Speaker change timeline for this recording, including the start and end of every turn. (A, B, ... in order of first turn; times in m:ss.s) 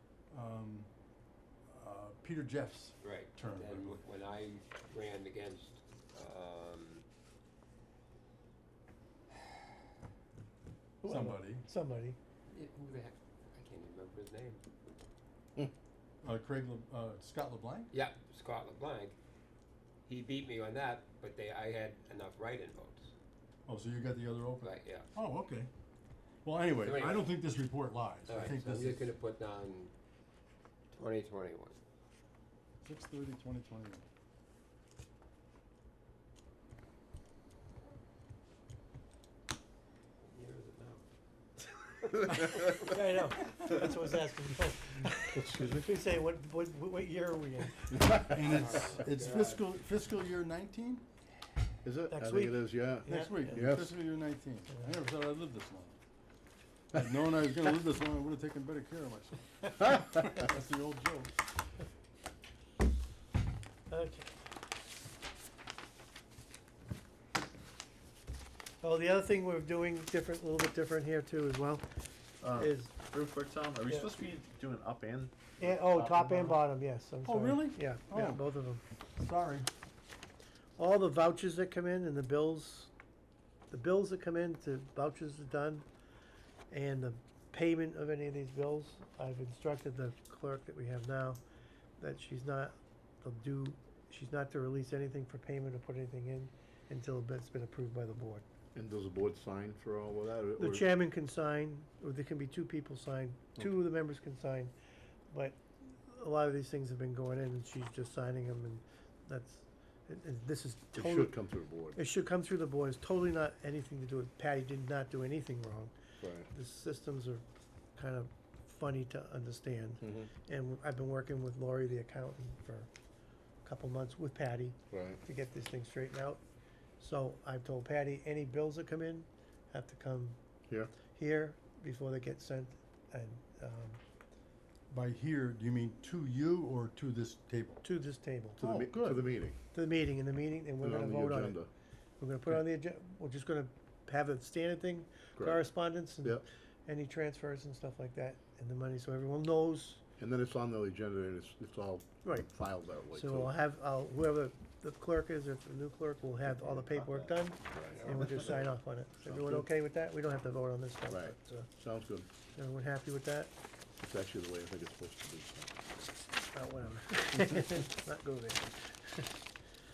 0:00.3-0:00.9 A
0:01.7-0:04.0 A
0:03.0-0:07.0 B
0:11.0-0:12.2 C
0:11.0-0:11.7 A
0:12.5-0:14.6 B
0:16.2-0:17.9 A
0:17.9-0:19.2 B
0:20.0-0:23.1 B
0:23.7-0:25.7 A
0:24.6-0:25.1 B
0:26.4-0:29.1 A
0:26.8-0:27.3 B
0:28.3-0:29.9 B
0:30.9-0:31.8 B
0:32.8-0:34.0 A
0:40.2-0:41.0 B
0:42.1-0:48.3 C
0:45.3-0:45.9 D
0:48.1-0:51.0 A
0:48.5-0:49.6 B
0:51.8-0:53.9 D
0:52.1-0:53.7 C
0:53.1-0:56.0 A
0:56.9-1:01.4 A
1:03.9-1:04.3 C
1:08.8-1:11.8 C
1:12.4-1:16.4 D
1:12.4-1:12.9 C
1:15.6-1:18.8 C
1:17.2-1:18.4 A
1:19.2-1:19.7 A
1:20.8-1:22.9 C
1:23.7-1:25.8 C
1:26.7-1:31.4 C
1:32.0-1:38.4 C
1:38.7-1:40.9 D
1:40.6-1:44.7 C
1:45.3-1:51.3 C
1:50.9-1:52.0 D
1:51.9-1:55.9 C
1:56.2-1:56.5 D
1:56.5-1:57.4 C
1:58.0-2:02.9 C
2:00.0-2:00.3 D
2:03.6-2:06.4 C
2:04.9-2:05.2 D
2:07.0-2:10.4 C
2:11.0-2:14.0 C
2:14.9-2:17.8 A
2:17.8-2:18.7 C
2:18.6-2:19.2 A
2:18.6-2:19.6 D
2:19.7-2:21.6 C
2:20.8-2:21.7 D
2:22.2-2:30.0 C
2:25.4-2:25.7 D
2:30.2-2:33.6 D
2:33.1-2:41.7 C
2:36.5-2:39.7 D
2:41.1-2:42.3 D
2:42.6-2:43.5 C
2:44.0-2:45.9 D
2:46.4-2:49.3 C